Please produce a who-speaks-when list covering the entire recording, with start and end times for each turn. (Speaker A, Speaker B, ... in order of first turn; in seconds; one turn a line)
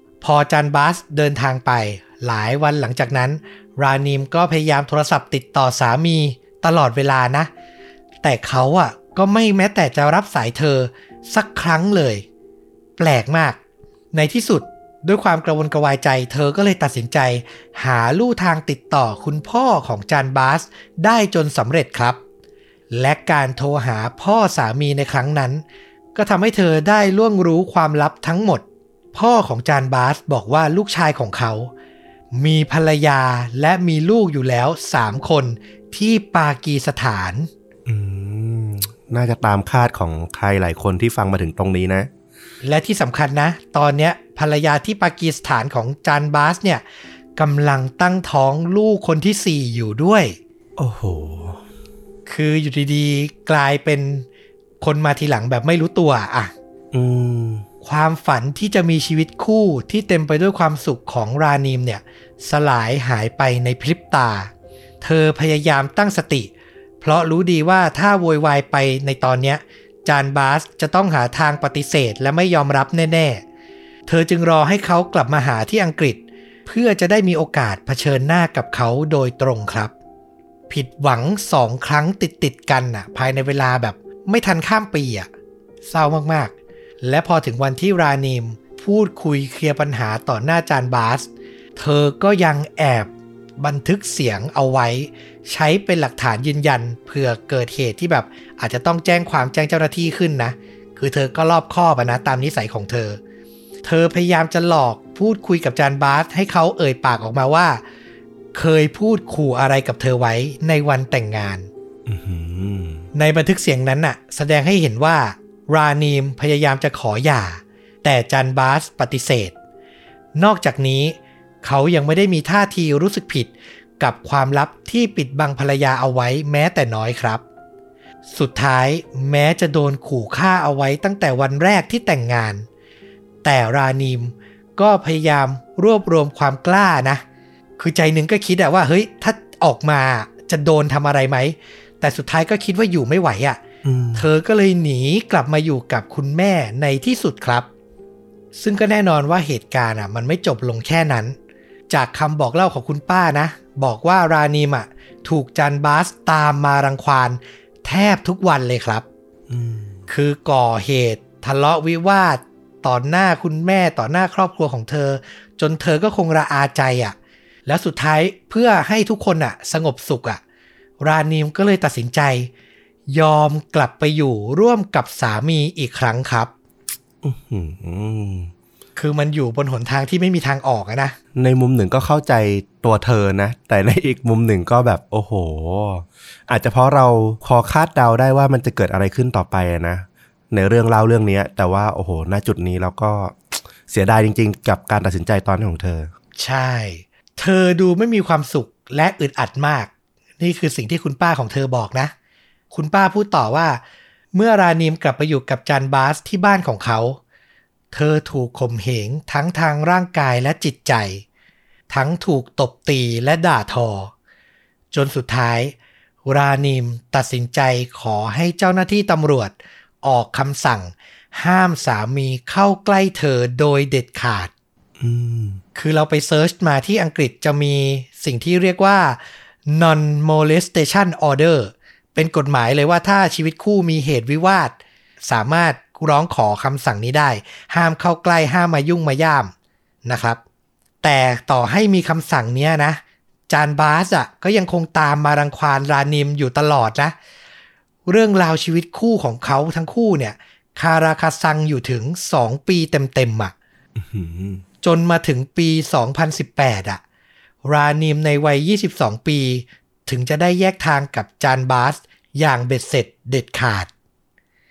Speaker A: 0.2-7.5
Speaker A: 8.2-12.2
Speaker A: 13.0-13.6
Speaker A: 14.1-22.2
Speaker A: 22.9-25.6
Speaker A: 26.1-31.7
Speaker A: 32.3-37.5
Speaker B: 37.9-42.1
Speaker A: 42.6-46.8
Speaker A: 47.4-50.4
Speaker B: 50.8-51.6
Speaker A: 52.3-54.3
Speaker A: 54.8-56.5
Speaker B: 56.9-57.6
Speaker A: 57.8-64.5
Speaker A: 65.0-66.5
Speaker A: 67.0-73.4
Speaker A: 74.1-79.9
Speaker A: 80.7-85.3
Speaker A: 85.8-103.2
Speaker A: 103.8-107.8
Speaker A: 108.5-111.7
Speaker B: 112.1-113.0
Speaker A: 113.1-119.5
Speaker A: 120.4-127.4
Speaker A: 128.3-132.7
Speaker A: 133.4-137.2
Speaker A: 137.8-143.6
Speaker B: 143.8-144.3
Speaker A: 144.2-147.7
Speaker A: 148.6-151.4
Speaker A: 151.9-159.1
Speaker B: 159.5-160.0
Speaker A: 160.1-170.4
Speaker A: 171.0-172.5
Speaker A: 173.1-176.5
Speaker B: 177.2-178.5
Speaker A: 179.0-181.2
Speaker B: 181.3-196.1
Speaker A: 196.4-202.1
Speaker A: 202.7-203.8
Speaker A: 204.3-207.2
Speaker A: 207.9-211.2
Speaker A: 211.9-214.1
Speaker A: 214.9-224.5
Speaker B: 225.0-225.6
Speaker A: 225.8-234.8
Speaker A: 235.3-239.5
Speaker A: 240.1-240.4
Speaker A: 241.0-247.2
Speaker A: 248.1-253.5
Speaker B: 254.0-254.6
Speaker A: 254.8-257.0
Speaker A: 257.6-263.9